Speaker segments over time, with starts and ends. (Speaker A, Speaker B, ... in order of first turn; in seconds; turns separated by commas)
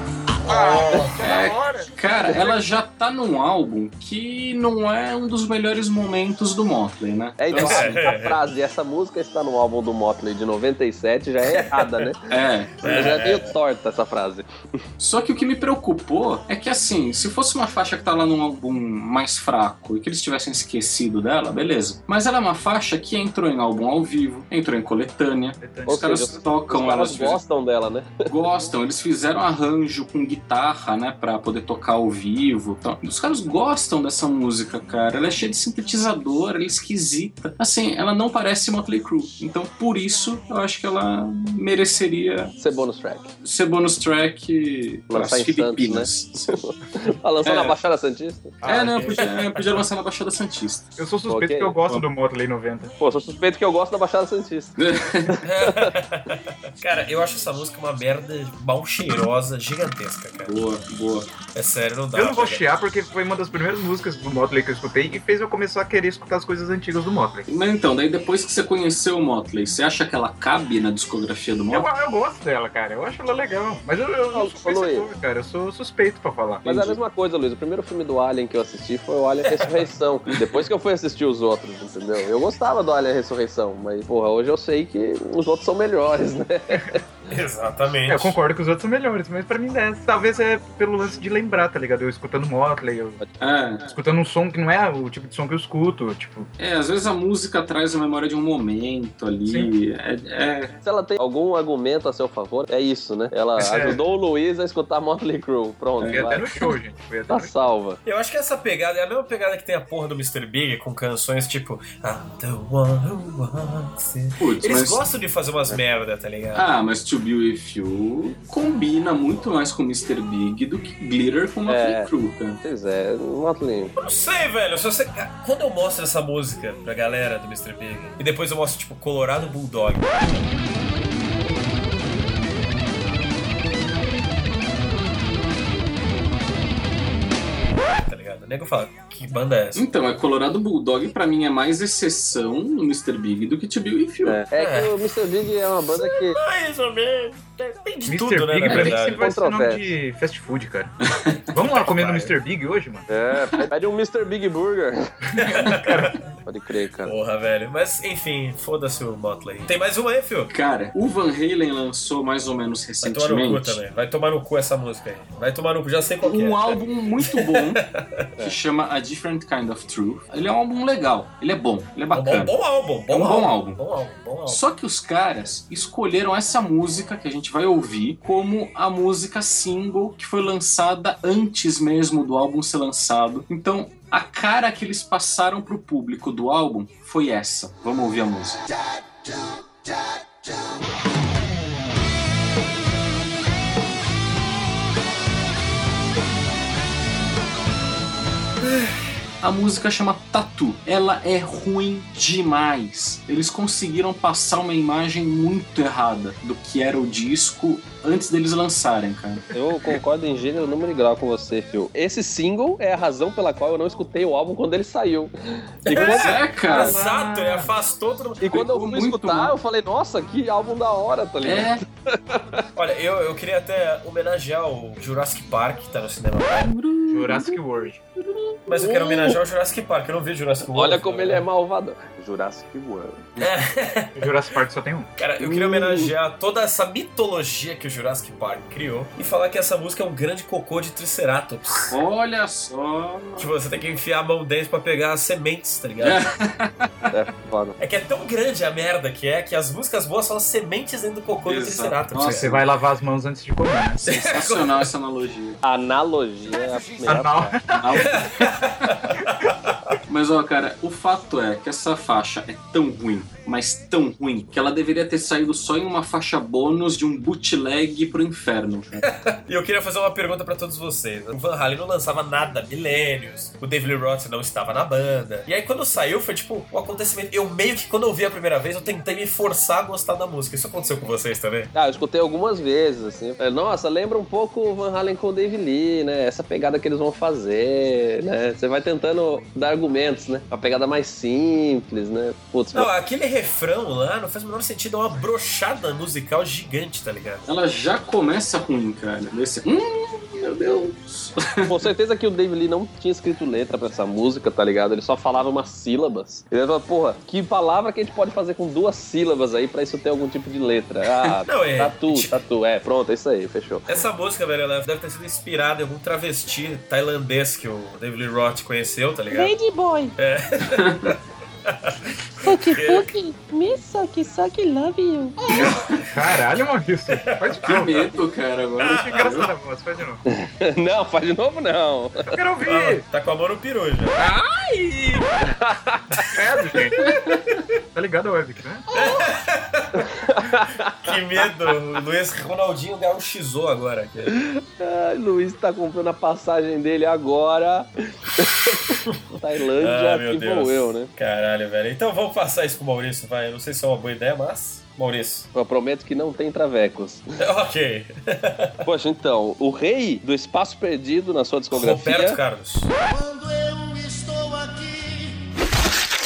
Speaker A: 0.5-0.8, Speaker B: 0.5-2.8, Speaker C: 0.5-1.2, Speaker D: 1.2-7.8, Speaker E: 7.4-12.2, Speaker C: 7.5-8.4, Speaker C: 11.5-12.1, Speaker D: 12.3-12.8, Speaker C: 12.8-13.5, Speaker E: 12.8-14.8, Speaker D: 15.0-27.4, Speaker B: 25.6-26.4, Speaker E: 25.9-28.2, Speaker D: 28.3-42.5, Speaker E: 42.6-43.3, Speaker D: 43.4-46.6, Speaker E: 45.1-48.6, Speaker D: 47.4-47.7, Speaker B: 48.6-49.4, Speaker D: 48.6-50.9, Speaker B: 51.0-52.9, Speaker E: 51.3-51.8, Speaker E: 53.0-54.8, Speaker D: 54.8-55.4, Speaker E: 55.3-55.9, Speaker C: 55.4-60.6, Speaker D: 60.5-61.3, Speaker C: 61.5-62.6, Speaker B: 62.1-67.5, Speaker D: 67.5-71.9, Speaker B: 71.7-77.0, Speaker E: 74.3-75.1, Speaker E: 76.6-87.0, Speaker C: 79.5-79.9, Speaker C: 87.3-88.4, Speaker B: 88.1-93.2, Speaker D: 93.4-93.8, Speaker B: 93.8-96.5, Speaker D: 96.6-100.8, Speaker B: 99.4-99.7, Speaker E: 100.8-106.5, Speaker B: 103.6-104.0, Speaker D: 106.0-106.4, Speaker B: 106.0-107.5, Speaker E: 107.3-108.0, Speaker C: 108.0-116.7, Speaker D: 114.4-115.0, Speaker D: 116.5-122.6, Speaker E: 121.7-122.1, Speaker E: 122.6-123.9, Speaker C: 124.0-130.4, Speaker C: 137.8-139.9, Speaker D: 139.8-144.4, Speaker E: 144.2-146.4, Speaker C: 144.6-145.0, Speaker C: 145.9-149.2, Speaker B: 148.1-150.9, Speaker E: 149.0-149.9, Speaker D: 151.1-151.5, Speaker B: 151.5-153.1, Speaker C: 151.9-152.3, Speaker E: 153.1-155.1, Speaker B: 155.4-156.2, Speaker C: 155.5-156.2, Speaker E: 156.4-157.1, Speaker C: 157.0-160.5, Speaker D: 160.5-163.8, Speaker C: 163.0-168.2, Speaker D: 166.2-167.8, Speaker D: 168.4-172.5, Speaker C: 172.1-174.6, Speaker D: 173.1-173.8, Speaker D: 174.5-188.6, Speaker D: 199.4-209.4, Speaker E: 209.5-216.2, Speaker C: 215.8-218.5, Speaker D: 215.9-217.0, Speaker B: 216.7-217.7, Speaker E: 218.4-222.6, Speaker D: 218.5-219.5, Speaker D: 221.4-221.8, Speaker C: 222.7-226.7, Speaker B: 227.1-228.0, Speaker C: 228.7-231.4, Speaker E: 228.7-229.4, Speaker E: 230.7-233.3, Speaker C: 233.4-234.3, Speaker B: 234.2-235.1, Speaker C: 235.2-241.9, Speaker E: 235.4-236.1, Speaker D: 241.9-243.5, Speaker C: 243.4-246.3, Speaker D: 246.0-246.9, Speaker E: 247.1-247.8, Speaker C: 247.8-252.5, Speaker D: 251.4-252.6, Speaker B: 252.2-254.0, Speaker D: 254.0-255.6, Speaker C: 254.1-254.9, Speaker E: 255.6-257.6, Speaker B: 257.0-258.1, Speaker D: 257.8-258.6, Speaker C: 257.9-259.9, Speaker D: 260.1-269.0, Speaker C: 269.2-281.7, Speaker E: 281.7-292.9, Speaker C: 292.7-297.5, Speaker D: 297.4-301.7, Speaker E: 301.6-313.9, Speaker C: 311.4-312.4, Speaker C: 313.9-319.6, Speaker A: 319.3-320.1, Speaker C: 320.1-323.1, Speaker D: 320.6-321.1, Speaker A: 322.4-325.3, Speaker D: 325.5-326.0, Speaker B: 326.1-328.1, Speaker C: 327.1-328.0, Speaker D: 327.6-329.5, Speaker B: 328.8-330.2, Speaker C: 328.8-329.3, Speaker E: 330.3-332.3, Speaker B: 332.3-333.0, Speaker C: 332.6-334.2, Speaker B: 334.2-335.2, Speaker E: 335.4-336.2, Speaker B: 336.3-337.1, Speaker B: 337.9-338.8, Speaker C: 338.9-340.1, Speaker E: 340.0-341.1, Speaker C: 340.9-344.4, Speaker E: 344.3-351.1, Speaker C: 349.8-355.5, Speaker E: 355.5-357.2, Speaker C: 357.4-358.8, Speaker E: 358.8-362.4, Speaker C: 361.7-362.9, Speaker A: 363.1-365.4